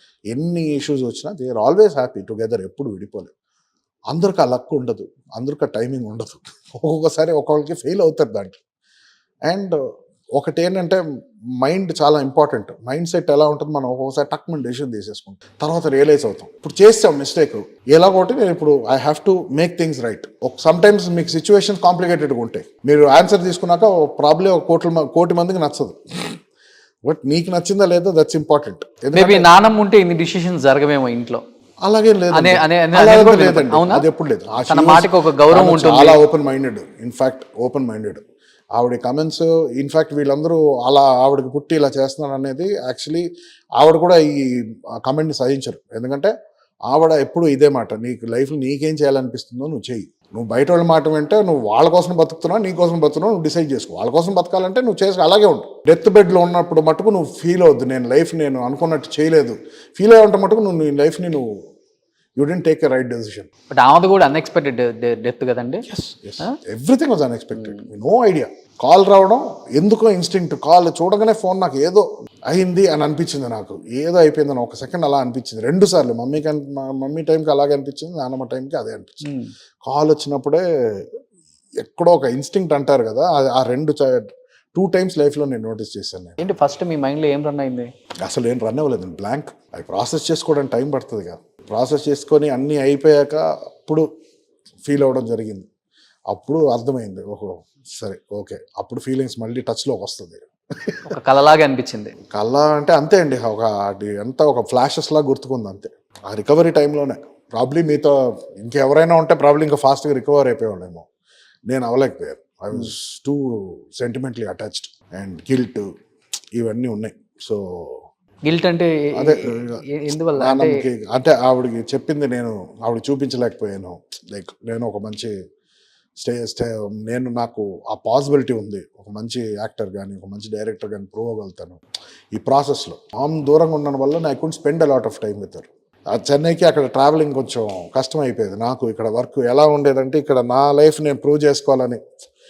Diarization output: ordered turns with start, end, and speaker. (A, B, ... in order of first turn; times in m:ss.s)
0:00.3-0:03.3 A
0:04.1-0:08.6 A
0:09.5-0:09.8 A
0:10.4-0:11.0 A
0:11.6-0:26.4 A
0:27.1-0:29.5 A
0:29.1-0:31.4 B
0:31.8-0:38.2 A
0:32.3-0:34.0 B
0:34.7-0:36.2 B
0:38.8-0:43.3 A
0:43.8-0:46.3 A
0:46.9-1:01.4 A
1:02.4-1:03.5 A
1:03.7-1:05.8 B
1:05.9-1:21.0 A
1:21.8-1:26.4 A
1:26.4-1:27.9 B
1:28.2-1:34.0 A
1:34.8-1:35.7 A
1:36.3-1:41.2 A
1:41.1-1:42.1 B
1:42.3-1:51.1 A
1:51.7-1:55.9 A
1:56.6-1:58.0 A
1:58.4-2:00.8 B
1:59.1-2:05.3 A
2:06.2-2:11.8 A
2:12.3-2:22.0 A